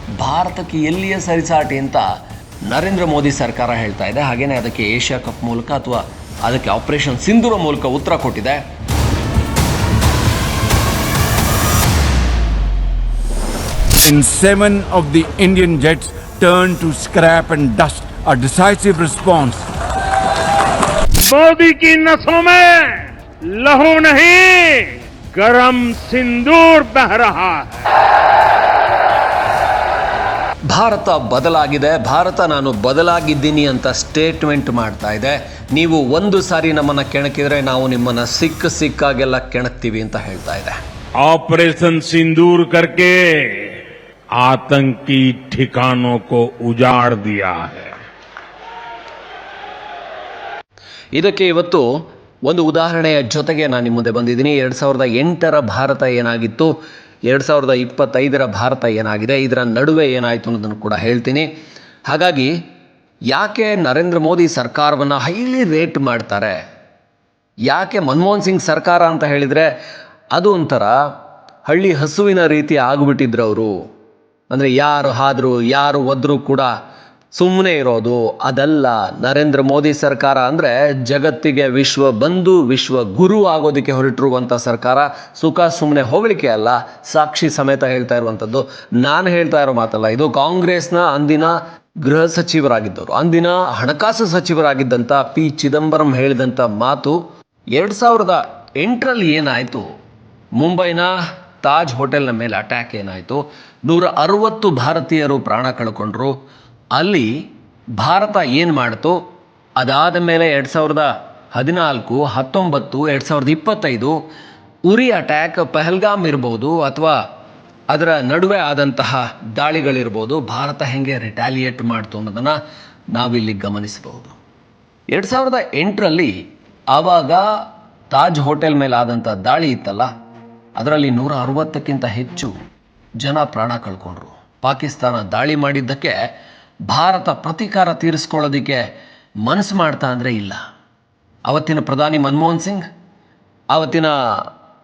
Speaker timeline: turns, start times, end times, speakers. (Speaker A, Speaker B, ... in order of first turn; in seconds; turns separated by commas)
Speaker A: 0.2-2.1, Speaker A: 2.6-8.6, Speaker B: 14.1-19.6, Speaker C: 21.2-27.8, Speaker A: 30.7-40.8, Speaker C: 41.2-43.8, Speaker C: 44.4-48.0, Speaker A: 51.1-56.8, Speaker A: 57.3-61.5, Speaker A: 62.1-62.5, Speaker A: 63.3-66.6, Speaker A: 67.7-69.7, Speaker A: 70.3-71.0, Speaker A: 71.7-73.8, Speaker A: 74.5-76.7, Speaker A: 77.3-97.2, Speaker A: 97.8-99.8, Speaker A: 100.6-106.3, Speaker A: 107.0-107.4, Speaker A: 108.0-109.2, Speaker A: 109.8-114.2, Speaker A: 114.9-117.2, Speaker A: 117.9-122.6, Speaker A: 123.1-124.3, Speaker A: 125.1-126.3, Speaker A: 126.9-127.5, Speaker A: 128.1-130.1, Speaker A: 130.8-132.5, Speaker A: 133.2-136.2, Speaker A: 136.9-138.8, Speaker A: 139.4-140.6, Speaker A: 141.5-142.8, Speaker A: 143.7-144.5